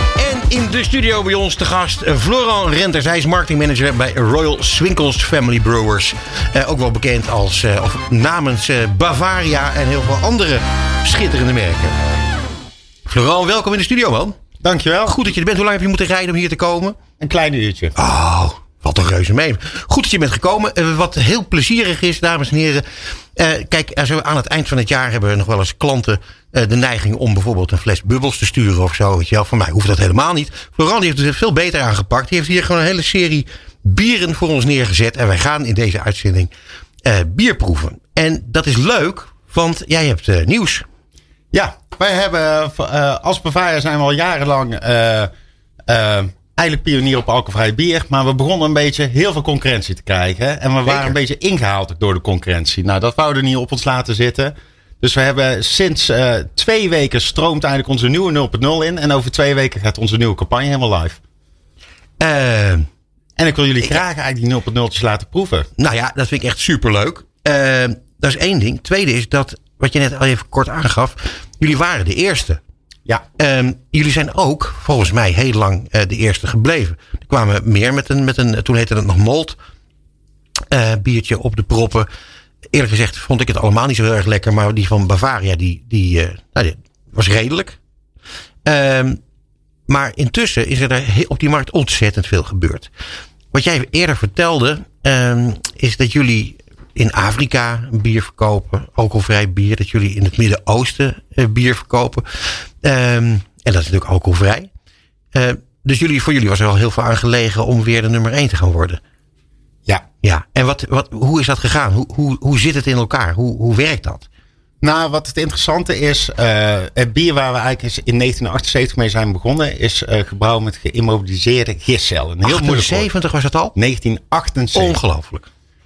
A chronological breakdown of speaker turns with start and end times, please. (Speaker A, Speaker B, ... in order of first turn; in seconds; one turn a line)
Speaker A: 0.2-12.0
Speaker A: 13.1-14.4
Speaker B: 14.6-15.2
Speaker A: 15.1-17.0
Speaker B: 17.2-17.9
Speaker A: 17.9-36.5
Speaker A: 37.0-40.9
Speaker B: 41.5-45.3
Speaker B: 45.9-61.2
Speaker A: 50.9-51.1
Speaker A: 62.2-62.9
Speaker B: 63.4-65.7
Speaker A: 65.8-72.6
Speaker A: 73.4-79.6
Speaker A: 80.7-82.1
Speaker A: 82.7-87.8
Speaker A: 88.7-89.2
Speaker A: 89.9-92.9
Speaker A: 93.5-104.7
Speaker A: 105.3-109.0
Speaker A: 110.2-114.3
Speaker B: 114.8-123.1
Speaker A: 122.4-123.8
Speaker B: 123.8-125.0
Speaker A: 124.7-125.5